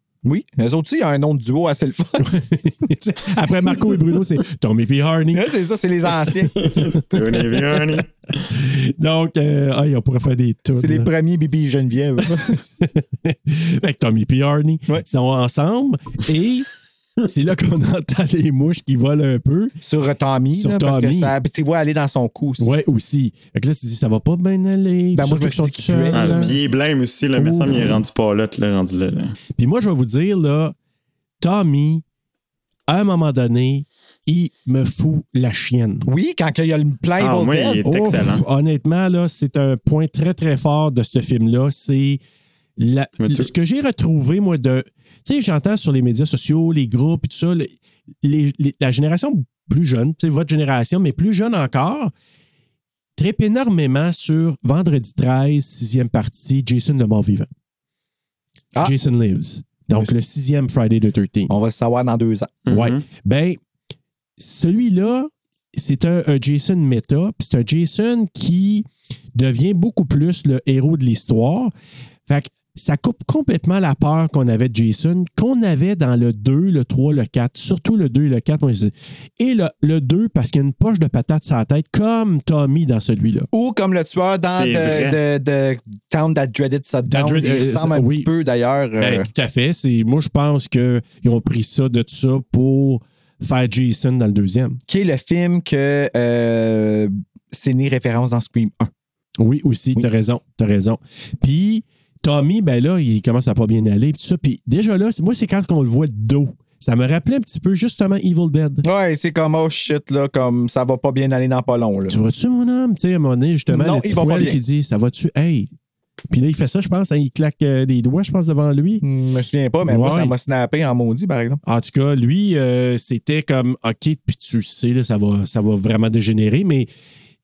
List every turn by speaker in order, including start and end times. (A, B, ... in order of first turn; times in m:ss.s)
0:00.2-0:02.3 A
0:02.2-0:05.5 B
0:05.3-0:06.8 A
0:06.6-0:08.1 C
0:06.6-0:07.0 B
0:08.5-0:11.1 B
0:10.8-0:12.6 A
0:12.2-0:16.7 B
0:17.2-0:19.7 B
0:19.8-0:22.7 A
0:20.5-0:21.3 B
0:22.6-0:26.5 B
0:25.1-0:26.6 A
0:26.1-0:29.4 C
0:27.4-0:28.0 B
0:29.6-0:30.7 B
0:31.4-0:32.0 B
0:32.9-0:36.0 B
0:36.0-0:37.8 A
0:37.2-0:38.4 C
0:37.8-0:42.2 B
0:42.8-0:52.1 B
0:43.2-0:43.5 C
0:53.2-0:57.5 B
0:58.8-1:01.5 B
0:59.9-1:00.2 A
1:01.5-1:02.5 A
1:02.6-1:03.0 C
1:02.7-1:03.6 B
1:04.4-1:11.7 B
1:12.3-1:23.5 B
1:23.5-1:29.3 A
1:24.5-1:25.2 C
1:27.1-1:28.3 B
1:29.0-1:34.8 B
1:34.9-1:38.9 A
1:39.4-1:48.8 B
1:48.8-1:52.2 A
1:52.1-1:55.7 B
1:53.7-1:54.6 A
1:56.3-1:59.0 B
1:59.0-2:01.6 A
1:59.8-2:00.3 B
2:01.6-2:06.9 B